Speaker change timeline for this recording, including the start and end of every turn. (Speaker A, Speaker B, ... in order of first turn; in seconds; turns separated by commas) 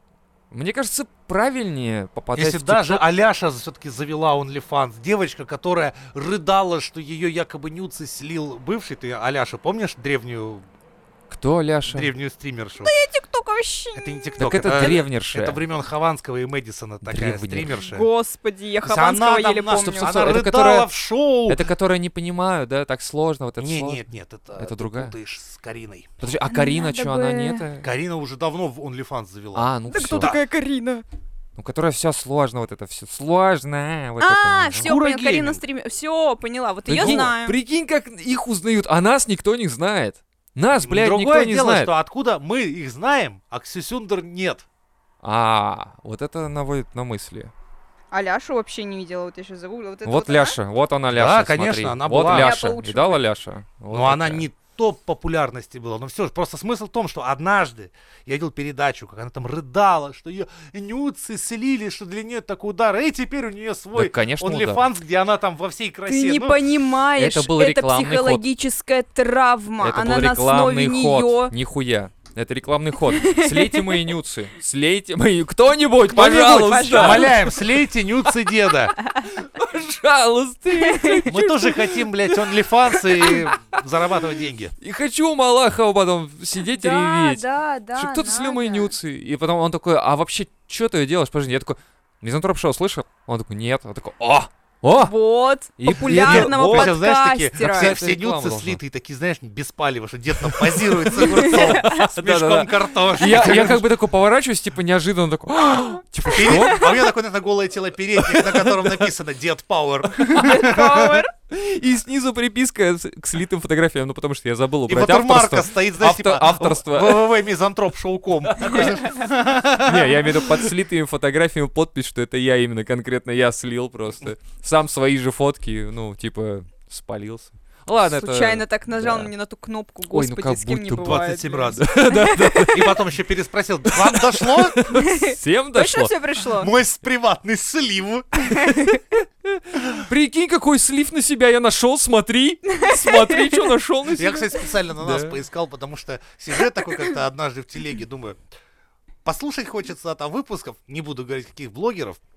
Speaker A: 0.5-3.0, Speaker B: 2.4-10.7, Speaker A: 11.3-12.1, Speaker B: 11.9-12.9, Speaker C: 12.8-14.9, Speaker B: 13.9-18.1, Speaker A: 14.4-15.6, Speaker A: 17.0-17.8, Speaker C: 17.8-20.3, Speaker B: 18.8-21.6, Speaker A: 19.7-20.9, Speaker A: 21.5-24.0, Speaker B: 23.6-26.2, Speaker A: 24.6-25.1, Speaker A: 26.2-27.9, Speaker C: 26.5-27.6, Speaker B: 27.8-30.4, Speaker A: 29.5-30.3, Speaker C: 29.9-31.0, Speaker A: 31.6-34.9, Speaker C: 34.2-37.5, Speaker B: 34.8-35.6, Speaker A: 36.9-41.9, Speaker B: 36.9-37.3, Speaker B: 40.8-44.6, Speaker A: 45.2-47.5, Speaker C: 48.1-50.6, Speaker A: 50.0-54.5, Speaker B: 51.1-52.6, Speaker C: 52.2-53.2, Speaker B: 53.9-66.6, Speaker A: 63.9-64.9, Speaker C: 66.1-71.5, Speaker A: 67.2-68.4, Speaker A: 69.8-77.6, Speaker C: 73.1-74.1, Speaker C: 76.1-77.6, Speaker B: 76.6-78.9, Speaker A: 79.2-83.8, Speaker C: 80.8-81.3, Speaker B: 81.3-84.8, Speaker A: 84.8-95.1, Speaker C: 86.6-88.9, Speaker C: 94.9-98.0, Speaker A: 95.8-97.0, Speaker B: 96.0-103.9, Speaker A: 97.6-98.8, Speaker A: 100.4-106.9, Speaker C: 101.2-102.0, Speaker C: 106.3-107.0, Speaker B: 106.3-111.2, Speaker A: 108.2-109.0, Speaker A: 110.2-110.7, Speaker C: 110.3-111.3, Speaker A: 111.5-117.2, Speaker B: 114.9-120.7, Speaker A: 118.5-118.9, Speaker A: 119.8-129.3, Speaker C: 128.1-132.9, Speaker A: 130.1-133.0, Speaker B: 131.0-131.9, Speaker B: 132.7-134.8, Speaker A: 133.8-136.1, Speaker C: 134.9-136.7, Speaker B: 136.5-138.7, Speaker C: 138.5-139.0, Speaker A: 139.4-145.3, Speaker C: 142.7-143.8, Speaker B: 144.2-148.4, Speaker B: 149.2-152.2